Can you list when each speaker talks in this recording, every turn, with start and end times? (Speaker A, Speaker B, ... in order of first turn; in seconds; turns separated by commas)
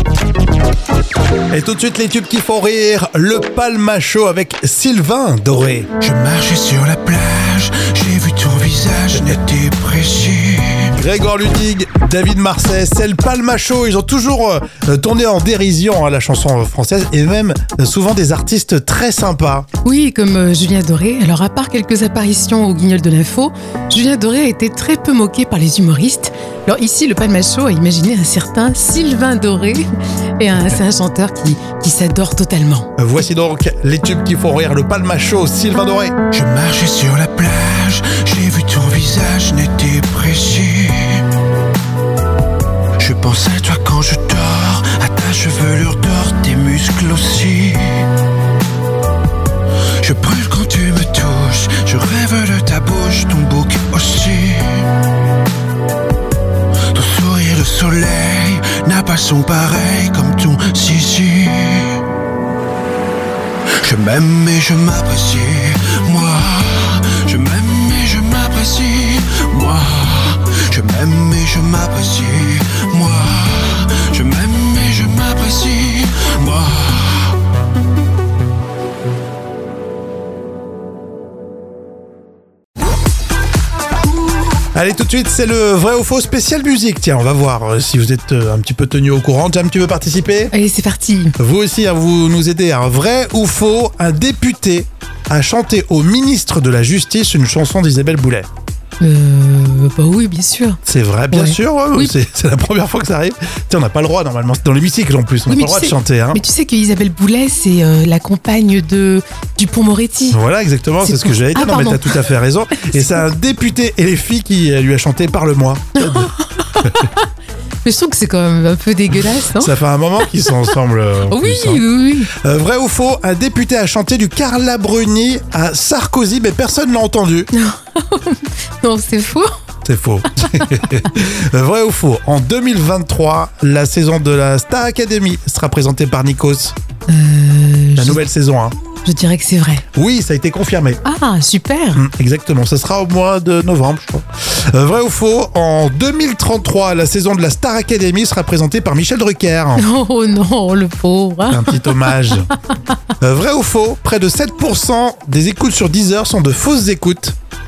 Speaker A: 1.5-5.9, Speaker B: 6.0-10.9, Speaker A: 10.9-19.7, Speaker C: 19.8-32.9, Speaker A: 33.0-36.2, Speaker B: 36.3-41.2, Speaker B: 43.0-48.1, Speaker B: 50.0-54.9, Speaker B: 56.9-62.0, Speaker B: 63.8-77.3, Speaker A: 84.8-90.5, Speaker C: 90.5-91.3, Speaker A: 91.4-98.5, Speaker C: 99.0-100.8, Speaker A: 100.8-106.4, Speaker C: 101.3-102.2, Speaker C: 105.5-110.4, Speaker A: 110.3-117.0, Speaker C: 111.0-112.2, Speaker C: 112.8-113.2, Speaker C: 116.0-117.3, Speaker C: 117.8-119.7, Speaker A: 119.5-127.5, Speaker C: 121.3-122.3, Speaker C: 127.5-129.6, Speaker A: 129.8-136.8, Speaker C: 130.4-130.7, Speaker C: 137.1-138.2, Speaker A: 138.0-138.8, Speaker C: 139.0-139.9, Speaker A: 139.9-141.0, Speaker C: 141.0-142.0, Speaker A: 141.9-149.8, Speaker C: 149.8-152.6, Speaker A: 151.5-152.5, Speaker A: 153.2-157.4